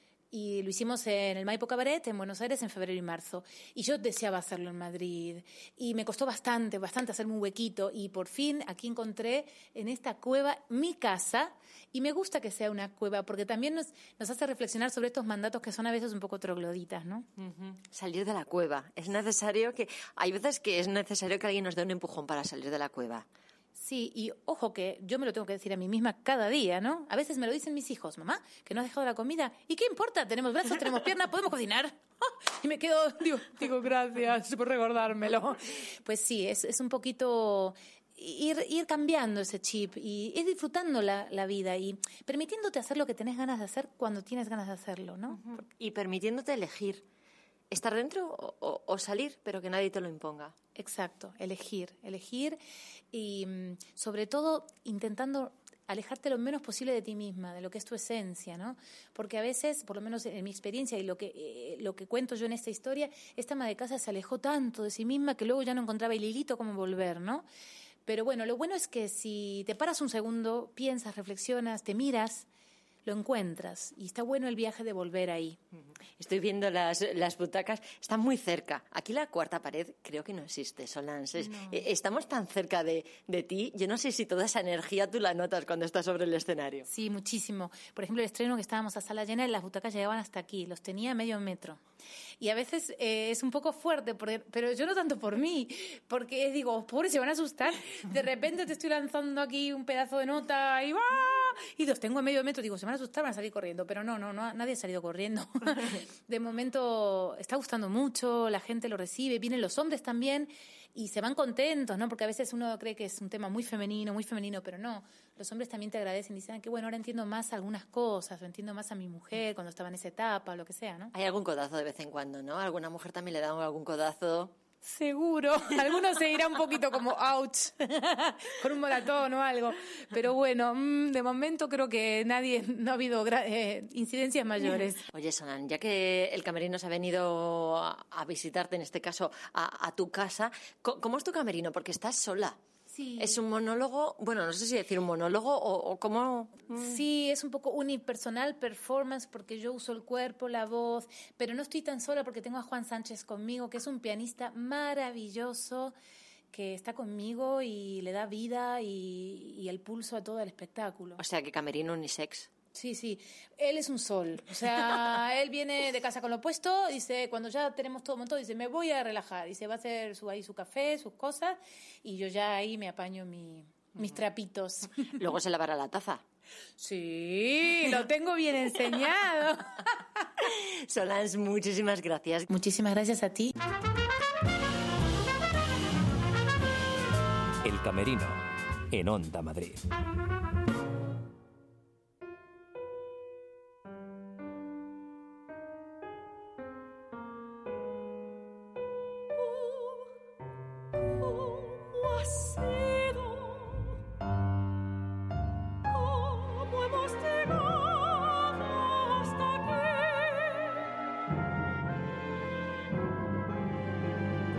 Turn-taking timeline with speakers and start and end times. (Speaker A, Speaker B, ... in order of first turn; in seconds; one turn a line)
Speaker A: 0.3-17.3
Speaker B: 17.4-23.3
Speaker A: 23.8-45.4
Speaker B: 45.3-47.0
Speaker B: 47.7-50.5
Speaker A: 50.8-52.6
Speaker A: 53.1-67.5
Speaker A: 68.1-72.5
Speaker A: 73.0-75.6
Speaker B: 76.2-86.9
Speaker A: 81.4-81.8
Speaker A: 86.9-91.8
Speaker A: 92.4-121.1
Speaker B: 121.1-124.5
Speaker A: 124.8-135.0
Speaker B: 135.1-142.6
Speaker A: 142.9-143.4
Speaker B: 143.2-147.0
Speaker A: 146.8-155.9
Speaker A: 156.5-161.2
Speaker B: 161.2-162.5
Speaker A: 162.7-175.1
Speaker B: 175.2-176.2
Speaker A: 176.8-179.6
Speaker B: 180.4-182.5
Speaker A: 182.5-183.5
Speaker C: 187.6-189.8